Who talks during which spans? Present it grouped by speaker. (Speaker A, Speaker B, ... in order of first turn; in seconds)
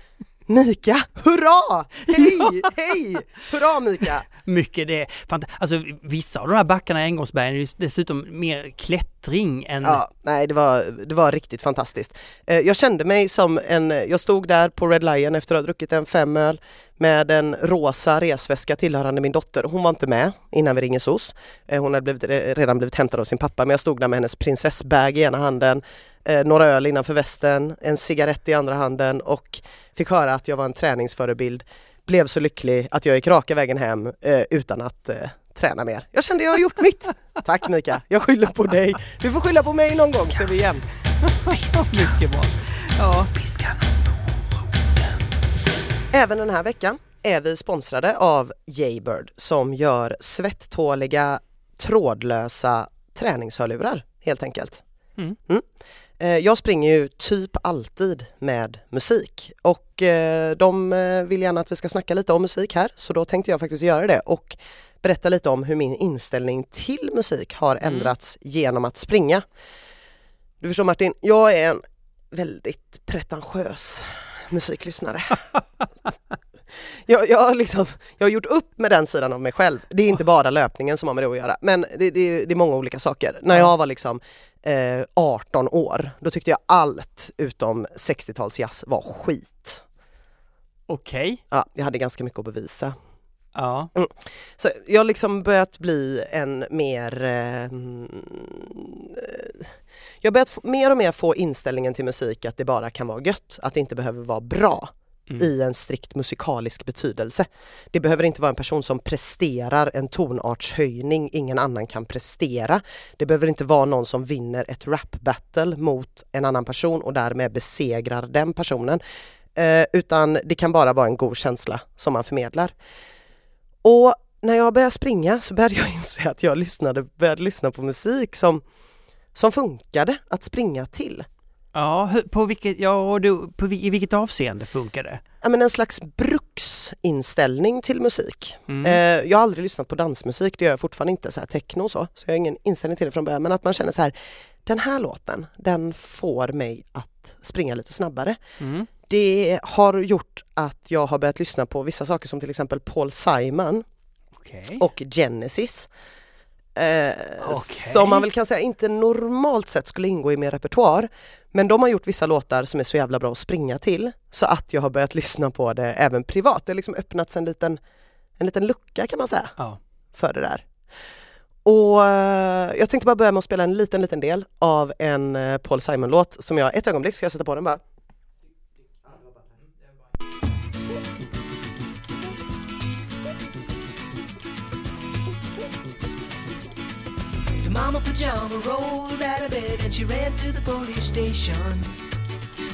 Speaker A: 0.5-4.3, 9.8-40.8, 46.1-54.8, 56.2-69.4, 70.6-71.8, 72.3-75.5, 77.1-89.8, 91.5-93.0, 94.0-119.0, 119.5-122.7, 123.8-128.6, 129.3-131.3, 135.4-144.1, 144.7-148.4, 149.1-153.8, 154.8-155.9, 156.8-167.8, 168.4-169.6, 170.1-170.7, 171.7-177.8
Speaker B: 2.1-2.7, 4.4-10.0, 41.3-43.3, 67.8-68.1, 90.9-91.4, 93.5-93.9, 131.7-135.2, 138.7-139.0, 148.6-148.9, 154.4-154.8, 157.4-158.3
Speaker C: 41.5-42.2, 43.3-45.0, 187.6-191.9